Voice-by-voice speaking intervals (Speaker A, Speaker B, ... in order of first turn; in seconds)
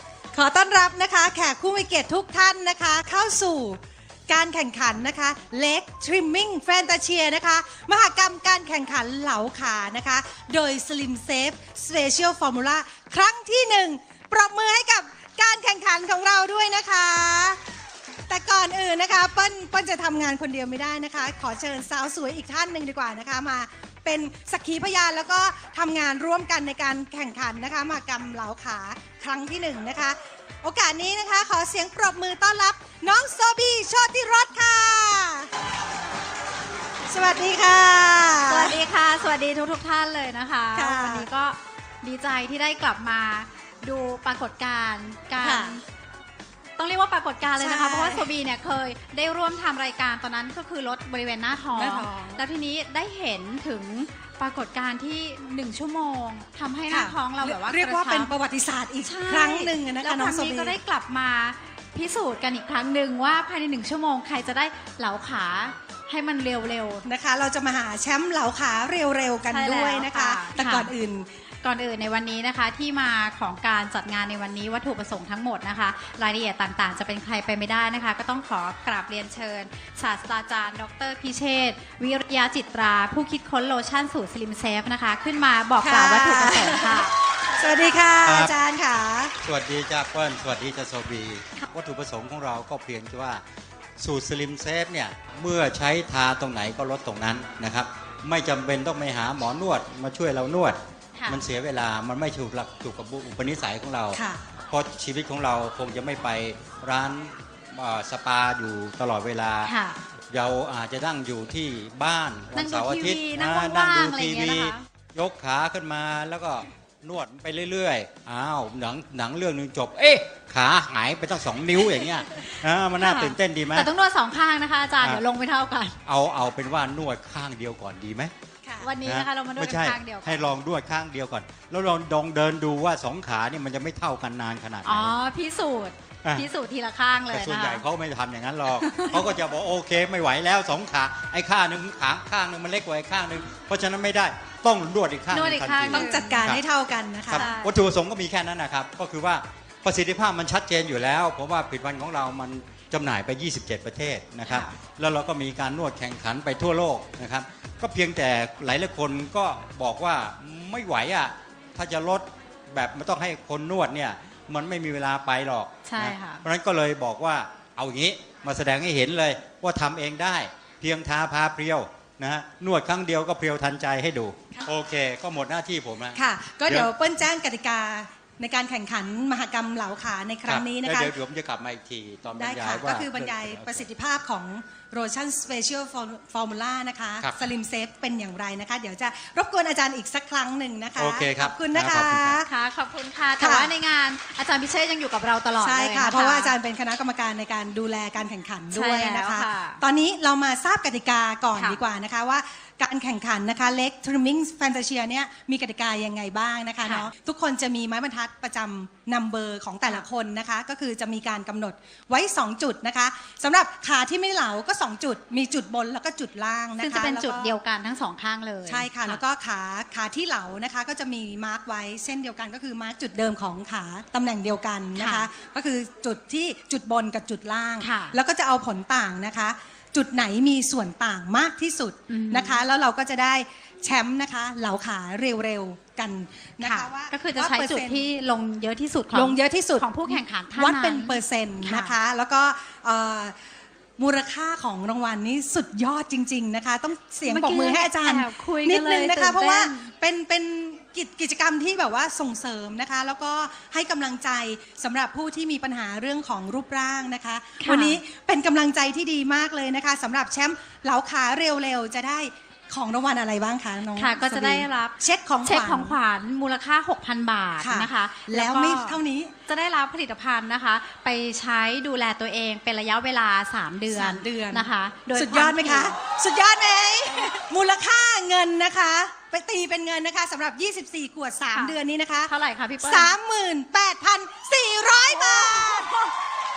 Speaker A: 0.3-17.6, 18.3-35.5, 37.1-38.8, 40.7-41.3, 45.4-45.8, 47.6-48.3, 51.8-52.4, 56.9-60.8, 67.0-71.3, 85.8-89.3, 104.1-104.5, 128.6-128.9, 145.9-147.5, 176.1-181.1, 182.3-192.5, 193.4-193.7, 195.6-217.5, 218.7-238.0, 239.1-243.3, 244.0-266.0, 267.6-269.3, 273.9-285.9
Speaker B: 38.5-45.8, 46.8-58.3, 59.0-67.1, 69.5-70.9, 71.6-87.1, 101.1-101.4, 109.6-110.0, 112.5-114.8, 123.0-126.0, 128.8-130.5, 134.8-137.8, 138.8-139.2, 145.3-146.4, 147.3-147.7, 154.4-154.7, 165.8-166.4, 192.4-196.5, 198.7-199.8, 201.5-201.8, 206.8-207.1, 216.8-219.2, 224.9-225.3, 227.8-228.2, 232.1-232.6, 236.6-242.0, 247.3-249.9, 257.6-258.0, 263.9-275.9, 282.3-283.1, 285.1-286.1
Speaker C: 88.2-88.5, 89.4-93.4, 94.0-109.7, 110.3-123.9, 126.0-128.3, 129.0-135.1, 137.3-146.6, 147.3-176.9, 180.5-183.8, 191.0-192.4